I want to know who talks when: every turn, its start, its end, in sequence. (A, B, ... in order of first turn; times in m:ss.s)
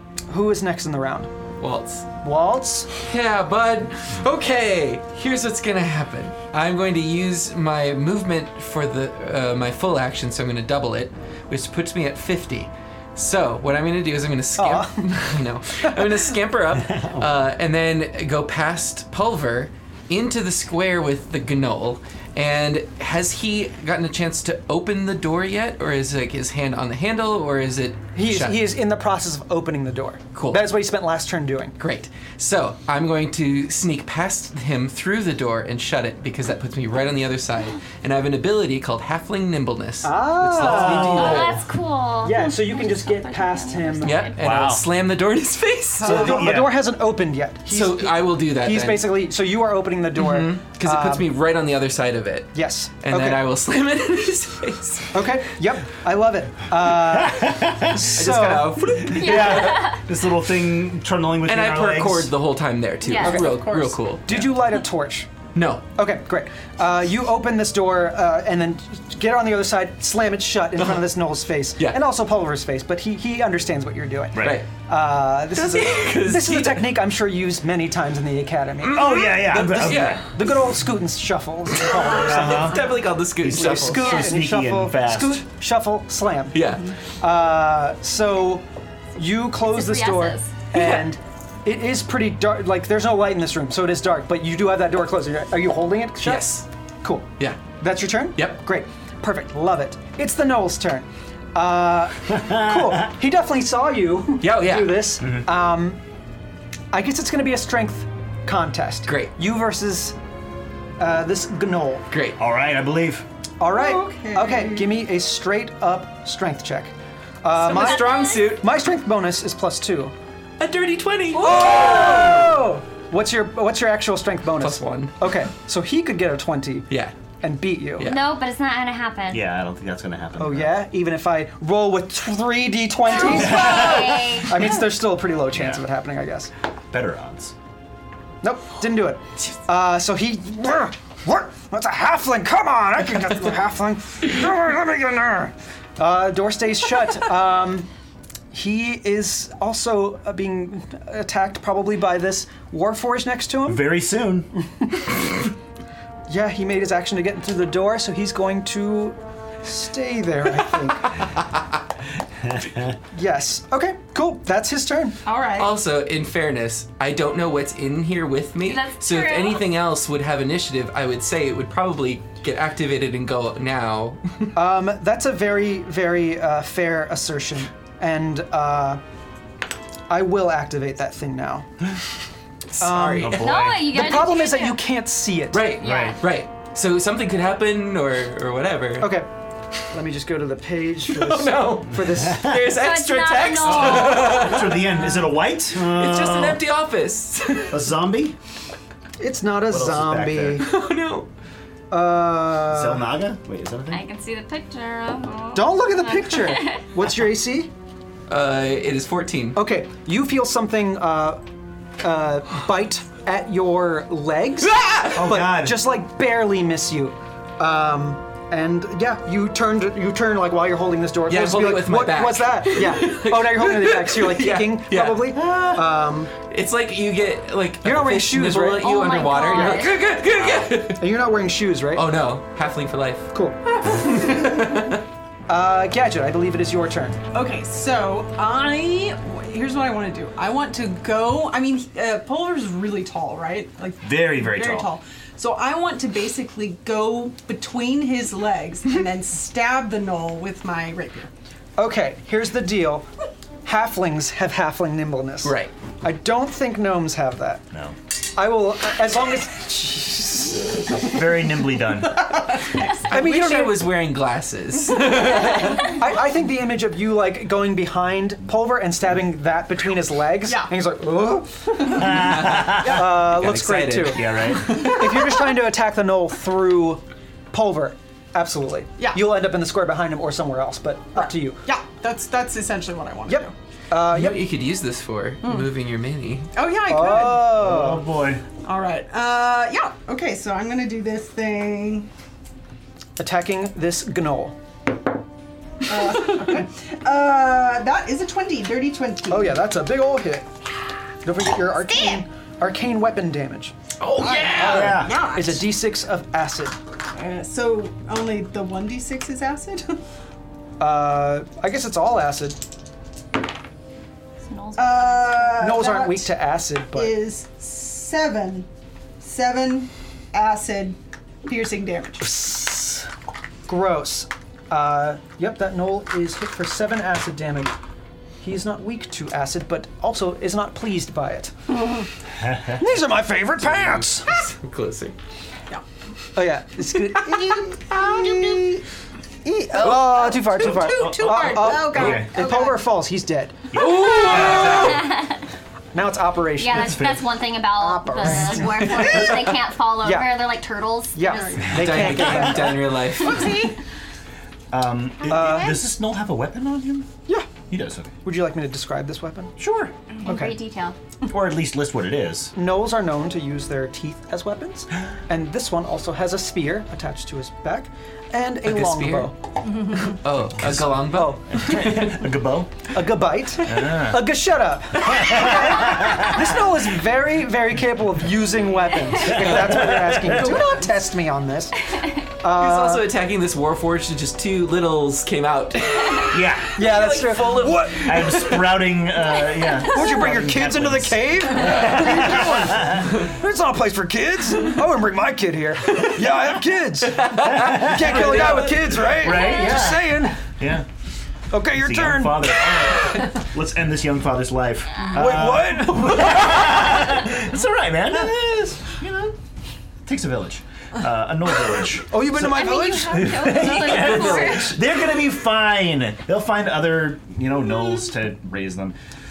0:00.3-0:01.3 A
0:01.6-0:02.1 B
0:02.2-0:02.9 A
0:03.0-0:28.6 B
0:14.6-0:16.1 A
0:16.8-0:17.3 C
0:28.2-0:31.8 A
0:30.3-0:30.7 B
0:31.8-0:41.6 B
0:40.0-0:41.4 A
0:40.6-0:41.6 C
0:41.1-0:44.4 D
0:42.2-0:44.3 A
0:44.0-0:46.3 B
0:44.4-0:44.8 C
0:46.0-0:46.5 E
0:46.0-0:46.8 C
0:46.0-0:51.3 A
0:47.7-0:49.1 B
0:50.2-0:55.2 B
0:52.5-0:53.5 A
0:55.1-0:59.0 A
0:57.0-0:58.0 C
0:58.0-0:59.8 B
0:59.0-1:02.3 C
0:59.1-1:00.1 D
1:01.4-1:04.5 B
1:03.0-1:03.5 D
1:03.2-1:04.0 E
1:03.2-1:03.6 A
1:04.3-1:05.3 A
1:05.5-1:05.8 B
1:06.0-1:22.9 A
1:10.8-1:11.1 B
1:14.3-1:14.6 C
1:14.4-1:14.7 B
1:15.5-1:17.0 B
1:18.8-1:20.3 B
1:18.9-1:20.3 C
1:21.7-1:24.2 B
1:22.1-1:22.9 C
1:23.4-1:25.4 C
1:23.4-1:26.6 A
1:26.5-1:26.9 B
1:27.2-1:46.0 A
1:29.7-1:30.5 D
1:30.7-1:31.1 B
1:36.2-1:36.7 B
1:42.3-1:43.1 C
1:44.4-1:45.2 B
1:45.2-1:45.5 C
1:46.9-1:50.2 A
1:49.1-1:49.3 B
1:51.0-1:52.1 A
1:52.1-1:52.4 B
1:52.4-1:53.3 C
1:53.6-1:56.9 A
1:53.7-1:54.9 E
1:57.4-2:00.1 A
1:57.6-1:58.6 B
1:57.6-1:58.5 D
2:00.6-2:02.4 B
2:01.4-2:02.5 E
2:01.4-2:06.9 A
2:04.6-2:05.2 B
2:06.9-2:07.2 B
2:07.4-2:08.1 A
2:08.0-2:08.3 B
2:08.0-2:09.4 D
2:09.3-2:10.7 C
2:10.4-2:16.5 A
2:13.1-2:14.5 D
2:13.2-2:14.5 C
2:15.5-2:15.8 C
2:16.9-2:17.6 C
2:18.4-2:27.9 A
2:28.5-2:33.8 A
2:33.7-2:34.5 C
2:34.8-2:35.3 A
2:36.3-2:41.2 A
2:42.4-2:43.0 C
2:43.1-2:45.2 A
2:45.2-2:45.7 E
2:45.6-2:54.5 B
2:48.6-2:49.7 D
2:54.6-2:59.0 A
3:00.1-3:01.7 A
3:02.7-3:03.6 B
3:02.8-3:05.7 A
3:03.2-3:03.9 C
3:03.4-3:04.8 D
3:05.5-3:09.2 B
3:05.8-3:06.2 D
3:05.8-3:06.2 C
3:09.0-3:09.3 A
3:09.9-3:12.6 A
3:11.1-3:15.1 B
3:12.0-3:12.6 C
3:12.7-3:14.7 D
3:13.6-3:16.6 C
3:15.7-3:17.8 B
3:17.7-3:18.4 C
3:19.2-3:20.7 A
3:19.7-3:20.7 C
3:20.6-3:21.3 B
3:21.9-3:23.1 A
3:22.7-3:24.0 C
3:23.9-3:26.8 D
3:25.6-3:27.7 A
3:28.3-3:29.6 B
3:29.6-3:31.4 A
3:32.0-3:46.3 A
3:34.6-3:35.3 B
3:35.2-3:35.8 C
3:41.3-3:45.6 B
3:45.4-3:45.8 C
3:46.4-3:51.0 B
3:47.8-3:48.9 A
3:48.8-3:50.0 D
3:49.5-3:49.9 A
3:50.9-3:52.1 A
3:51.9-3:53.3 B
3:53.3-3:53.6 A
3:53.8-3:54.7 E
3:53.9-3:55.0 B
3:55.5-3:57.2 A
3:57.3-4:11.3 E
4:04.0-4:04.9 C
4:11.8-4:13.1 A
4:13.6-4:17.6 A
4:15.4-4:15.7 B
4:18.3-4:21.0 A
4:21.0-4:22.2 C
4:22.2-4:23.0 E
4:23.0-4:26.0 B
4:23.0-4:23.9 A
4:25.3-4:41.6 A
4:30.5-4:30.7 E
4:31.9-4:33.0 C
4:32.1-4:35.2 B
4:34.1-4:34.9 C
4:41.2-4:43.5 E
4:43.3-4:44.5 A
4:44.0-4:46.5 B
4:45.4-4:45.7 E
4:46.6-4:47.5 E
4:46.9-4:48.0 A
4:47.5-4:48.4 C
4:48.6-4:52.1 E
4:53.2-4:54.6 A
4:55.8-4:59.6 E
4:59.3-5:00.5 A
5:01.2-5:03.7 A
5:04.0-5:05.0 B
5:04.2-5:05.7 E
5:04.6-5:05.2 C
5:04.6-5:06.8 A
5:07.1-5:10.0 E
5:10.8-5:12.6 A
5:14.4-5:15.6 D
5:14.8-5:16.3 E
5:15.6-5:17.2 A
5:16.9-5:18.7 E
5:19.2-5:22.3 E
5:22.2-5:23.1 A
5:23.7-5:27.7 A
5:28.4-5:31.6 A
5:32.4-5:32.8 C
5:32.8-5:34.3 A
5:33.7-5:35.2 B
5:36.4-5:38.8 A
5:37.3-5:38.8 E
5:39.4-5:43.7 A
5:39.8-5:42.8 E
5:40.6-5:42.4 C
5:43.7-5:45.1 C
5:43.8-5:45.1 B
5:43.8-5:45.4 D
5:44.3-5:44.9 A
5:45.9-5:47.2 A
5:46.6-5:51.5 D
5:46.7-5:47.3 C
5:47.8-5:50.5 A
5:51.2-5:53.0 A
5:51.2-5:52.2 E
5:51.7-5:53.7 B
5:51.8-5:52.5 C
5:53.0-5:53.8 E
5:54.7-5:57.1 C
5:55.3-5:55.8 A
5:57.3-5:57.5 A
5:57.7-5:58.2 C
5:58.2-5:59.5 A
5:59.6-5:59.9 C
6:00.1-6:01.0 D
6:00.2-6:00.6 A
6:01.2-6:02.5 C
6:02.6-6:09.8 A
6:08.6-6:09.3 B
6:09.7-6:10.2 E
6:09.9-6:12.3 B
6:10.6-6:12.1 A
6:10.6-6:11.0 C
6:11.5-6:12.9 C
6:12.9-6:23.1 A
6:13.7-6:14.2 C
6:15.0-6:16.5 C
6:19.2-6:20.7 C
6:19.3-6:20.7 B
6:22.5-6:28.6 B
6:26.3-6:26.8 C
6:26.8-6:28.8 A
6:28.0-6:33.2 C
6:29.8-6:40.4 A
6:37.1-6:39.0 B
6:37.4-6:40.9 C
6:39.2-6:39.8 D
6:41.5-6:43.3 A
6:41.7-6:49.4 C
6:45.1-6:46.5 A
6:45.1-6:47.2 B
6:50.0-6:59.0 C
6:52.1-6:54.6 A
6:52.4-6:54.8 D
6:53.8-6:54.6 B